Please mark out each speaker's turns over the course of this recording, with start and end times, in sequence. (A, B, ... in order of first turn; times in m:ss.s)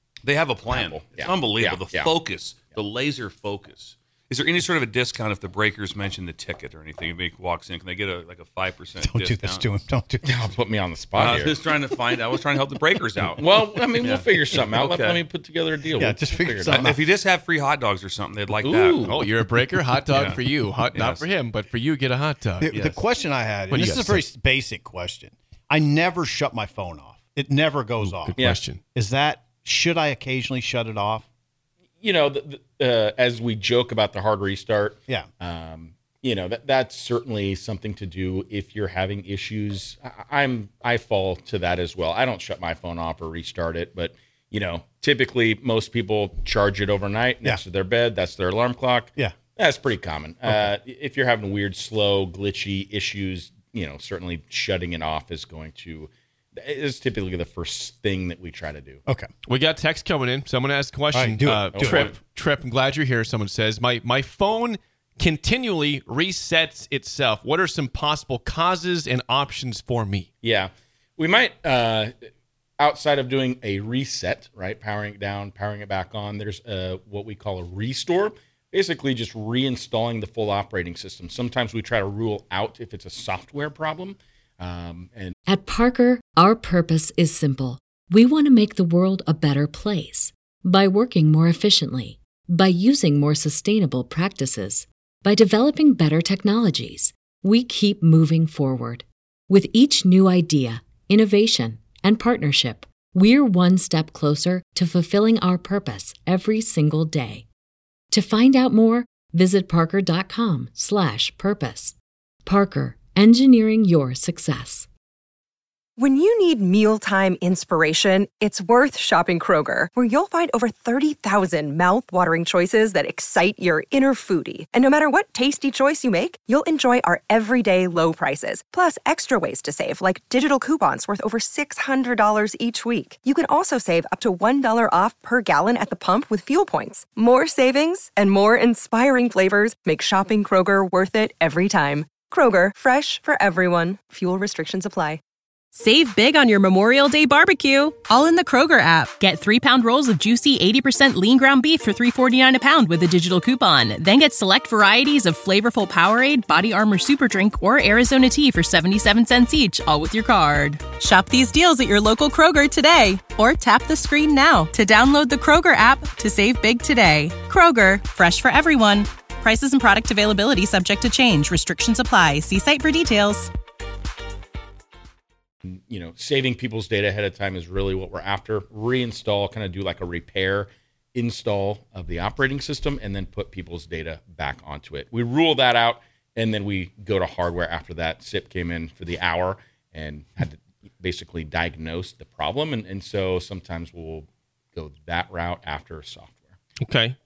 0:00.2-0:09.6 A
0:00.7-0:02.1 B
0:09.0-0:10.4 C
0:10.2-0:11.6 B
0:11.1-0:15.2 A
0:13.4-0:16.9 B
0:15.9-0:17.0 C
0:16.7-0:19.0 A
0:18.6-0:19.2 B
0:19.0-0:22.7 D
0:20.1-0:21.2 A
0:22.6-0:31.2 C
0:22.7-0:23.0 A
0:23.7-0:24.2 D
0:28.0-0:28.8 D
0:32.0-0:59.0 B
0:59.4-1:10.3 D
1:01.1-1:02.1 C
1:01.7-1:02.1 B
1:10.4-1:12.3 B
1:12.8-1:25.3 B
1:25.5-1:47.4 E
1:48.1-1:54.9 E
1:56.0-2:25.2 F
2:25.7-2:53.5 G
2:55.6-3:16.4 B
3:16.8-3:17.2 D